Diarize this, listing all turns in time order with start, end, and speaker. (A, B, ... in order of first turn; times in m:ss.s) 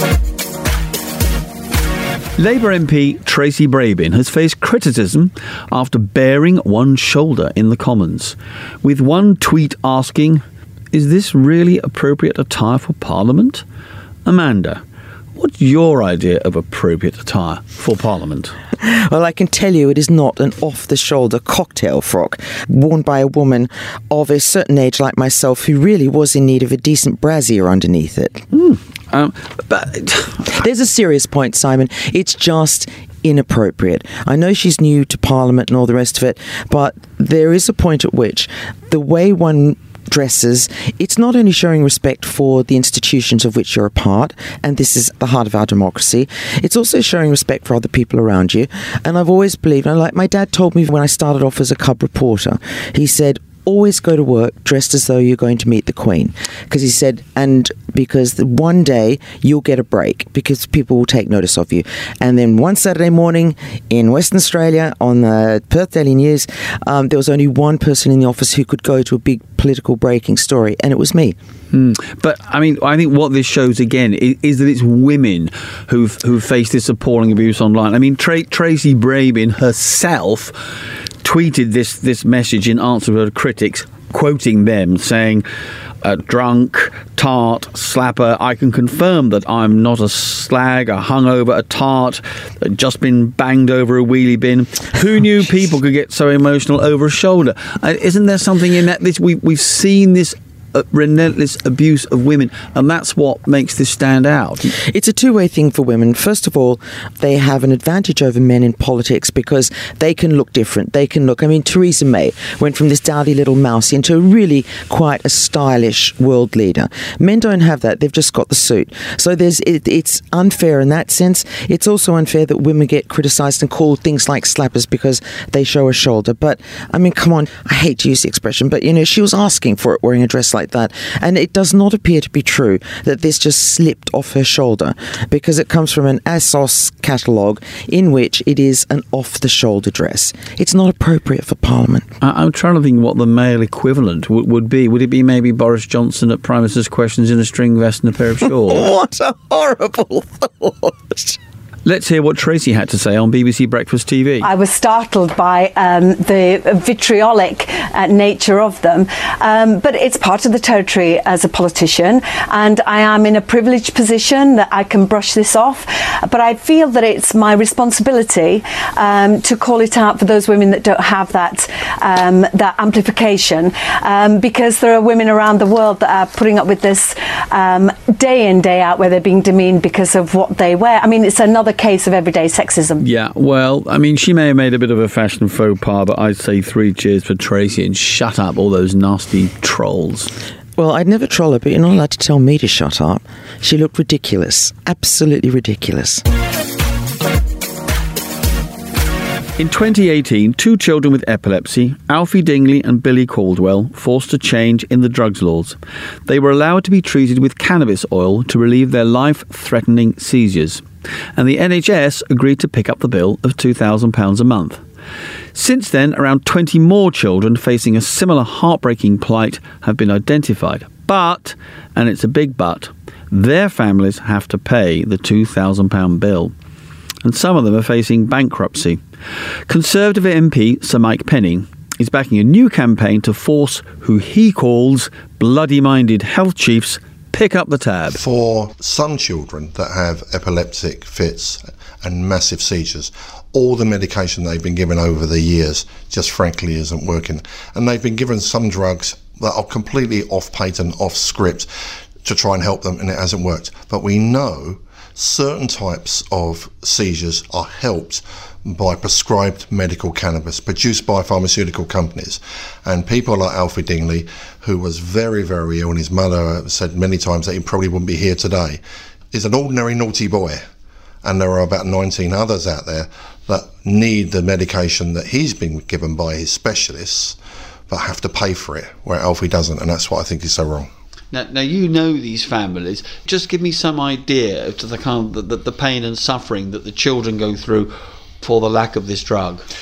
0:02.4-0:13.6 A
0:14.3-0:14.8 A
0:15.4-0:18.6 A
0:18.8-0:28.4 B
0:28.5-0:30.5 A
0:30.5-1:11.4 B
1:11.7-1:20.6 A
1:21.2-1:25.4 A
1:26.0-1:44.7 A
1:44.8-2:22.1 B
2:22.2-2:28.9 A
2:28.4-2:31.4 B
2:31.8-2:34.5 A
2:34.4-3:03.0 C
3:03.0-3:10.3 A
3:10.8-3:16.2 B
3:19.6-3:30.8 A
3:31.4-3:34.8 A
3:35.5-3:46.5 A
3:47.2-3:49.0 A
3:49.7-3:58.2 A
3:58.1-4:11.7 D
4:12.2-4:28.8 D
4:29.3-4:30.6 D
4:31.2-4:37.4 D
4:37.9-4:40.9 D
4:41.3-4:49.6 A